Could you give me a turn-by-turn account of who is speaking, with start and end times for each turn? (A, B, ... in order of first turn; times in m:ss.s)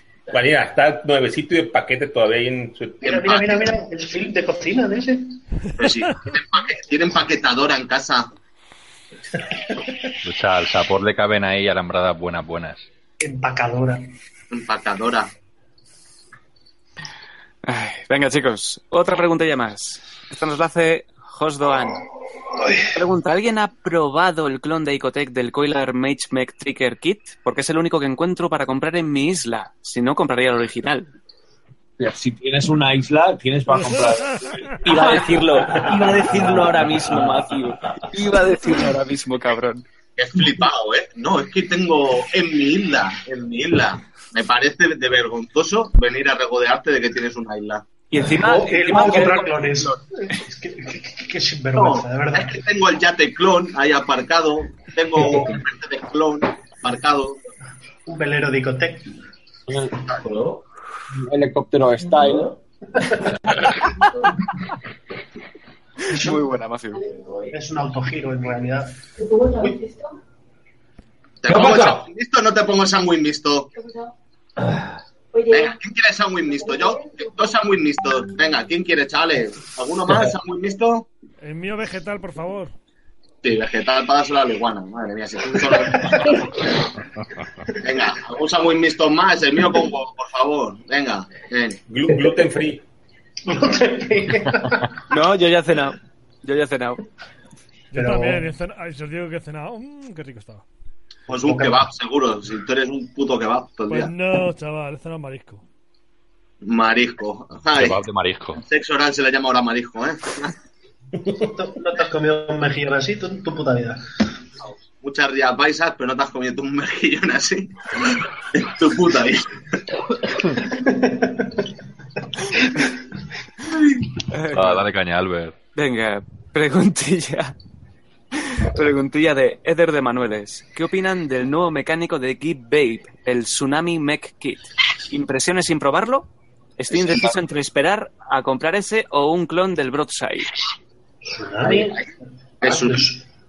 0:00.3-0:03.1 A
0:03.0-0:03.7 B
0:03.0-0:05.4 C
0:05.8-0:08.3 B
0:10.2-0:12.9 D
0:13.2-0:14.0 C
0:14.5-0:15.3 B
0:17.6-0:22.0 E
0:22.9-0:31.1 E
0:32.0-0:36.6 F
0:34.8-0:39.8 E
0:35.8-0:37.0 G
0:40.2-0:47.8 B
0:48.1-0:50.0 E
0:48.3-0:52.6 C
0:51.8-0:57.4 B
0:55.2-0:55.6 C
0:55.2-0:55.6 G
0:58.0-0:59.1 C
1:00.1-1:00.6 G
1:01.1-1:02.5 F
1:02.1-1:02.6 G
1:06.1-1:06.4 C
1:06.1-1:07.0 E
1:06.9-1:07.5 H
1:07.5-1:09.0 C
1:09.2-1:10.2 H
1:11.4-1:13.7 B
1:11.4-1:12.1 G
1:13.7-1:14.1 H
1:15.3-1:15.8 H
1:15.5-1:21.1 B
1:16.4-1:17.5 H
1:21.4-1:22.7 I
1:23.4-1:26.7 B
1:25.6-1:26.4 C
1:27.8-1:31.8 B
1:31.9-1:32.8 A
1:33.4-1:35.0 C
1:35.1-1:37.0 E
1:37.9-1:40.6 I
1:37.9-1:38.5 C
1:41.3-1:44.1 B
1:41.3-1:41.9 C
1:43.9-1:45.6 I
1:46.6-1:48.0 B
1:47.7-1:48.6 D
1:48.6-1:50.5 B
1:51.3-1:54.0 C
1:54.7-1:59.8 B
2:00.6-2:01.6 C
2:04.3-2:04.8 E
2:04.5-2:05.6 D
2:05.7-2:07.6 E
2:08.4-2:20.5 E
2:16.9-2:17.3 B
2:21.2-2:22.0 C
2:21.6-2:22.1 B
2:22.6-2:23.1 B
2:22.6-2:23.2 C